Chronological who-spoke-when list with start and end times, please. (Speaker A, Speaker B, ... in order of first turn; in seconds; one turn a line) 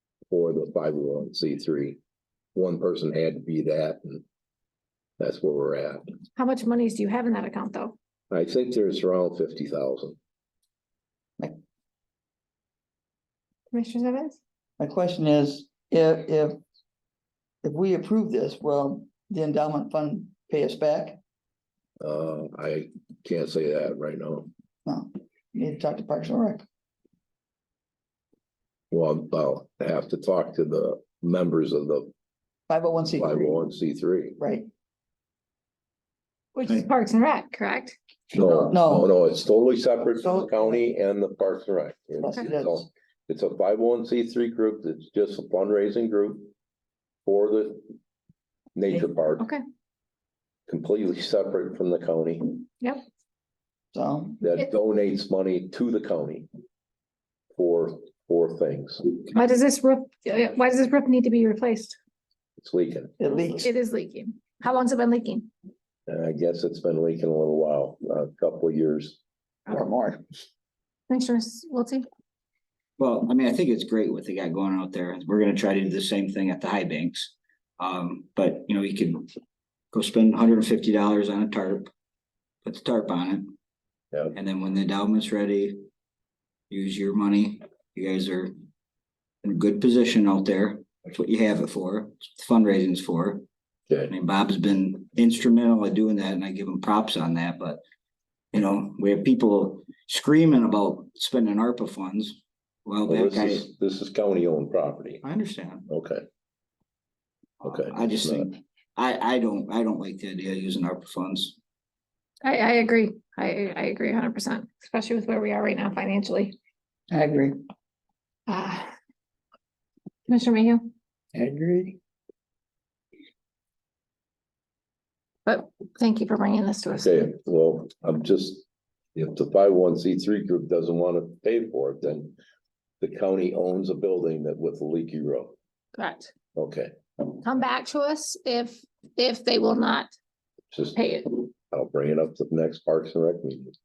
Speaker A: 0.3-2.0
Speaker A: 2.5-4.2
Speaker A: 5.2-6.0
Speaker B: 6.3-7.9
Speaker A: 8.3-10.2
Speaker B: 13.7-14.4
Speaker C: 14.8-16.6
Speaker C: 17.6-21.2
Speaker A: 22.0-24.5
Speaker C: 24.9-26.6
Speaker A: 28.9-32.1
Speaker C: 32.7-33.6
Speaker A: 33.2-34.4
Speaker C: 34.4-34.7
Speaker B: 36.5-38.0
Speaker C: 38.3-39.1
Speaker A: 38.3-46.5
Speaker C: 40.2-40.8
Speaker C: 42.2-42.9
Speaker A: 47.2-47.9
Speaker A: 48.7-49.5
Speaker A: 50.7-52.6
Speaker C: 53.9-54.4
Speaker A: 54.4-56.5
Speaker A: 57.5-59.0
Speaker B: 59.3-62.0
Speaker A: 62.6-63.1
Speaker C: 63.2-63.7
Speaker B: 63.3-65.5
Speaker A: 66.1-69.2
Speaker C: 69.7-70.2
Speaker B: 71.1-72.0
Speaker D: 73.0-79.3
Speaker D: 79.9-81.9
Speaker D: 82.6-83.5
Speaker D: 84.3-85.8
Speaker D: 86.7-88.5
Speaker D: 89.4-93.4
Speaker D: 94.1-97.8
Speaker D: 98.5-103.6
Speaker A: 103.1-105.2
Speaker D: 105.2-105.8
Speaker A: 105.9-106.2
Speaker D: 107.6-111.6
Speaker A: 107.6-108.5
Speaker B: 112.4-116.5
Speaker C: 117.1-117.6
Speaker B: 118.5-118.9
Speaker B: 120.3-120.9
Speaker C: 121.3-122.0
Speaker B: 125.5-127.1
Speaker A: 127.0-132.3
Speaker A: 133.0-135.6
Speaker B: 135.9-136.3
Speaker A: 136.6-136.9
Speaker B: 137.4-140.1
Speaker A: 140.7-141.0
Speaker B: 140.9-141.4
Speaker A: 141.7-143.7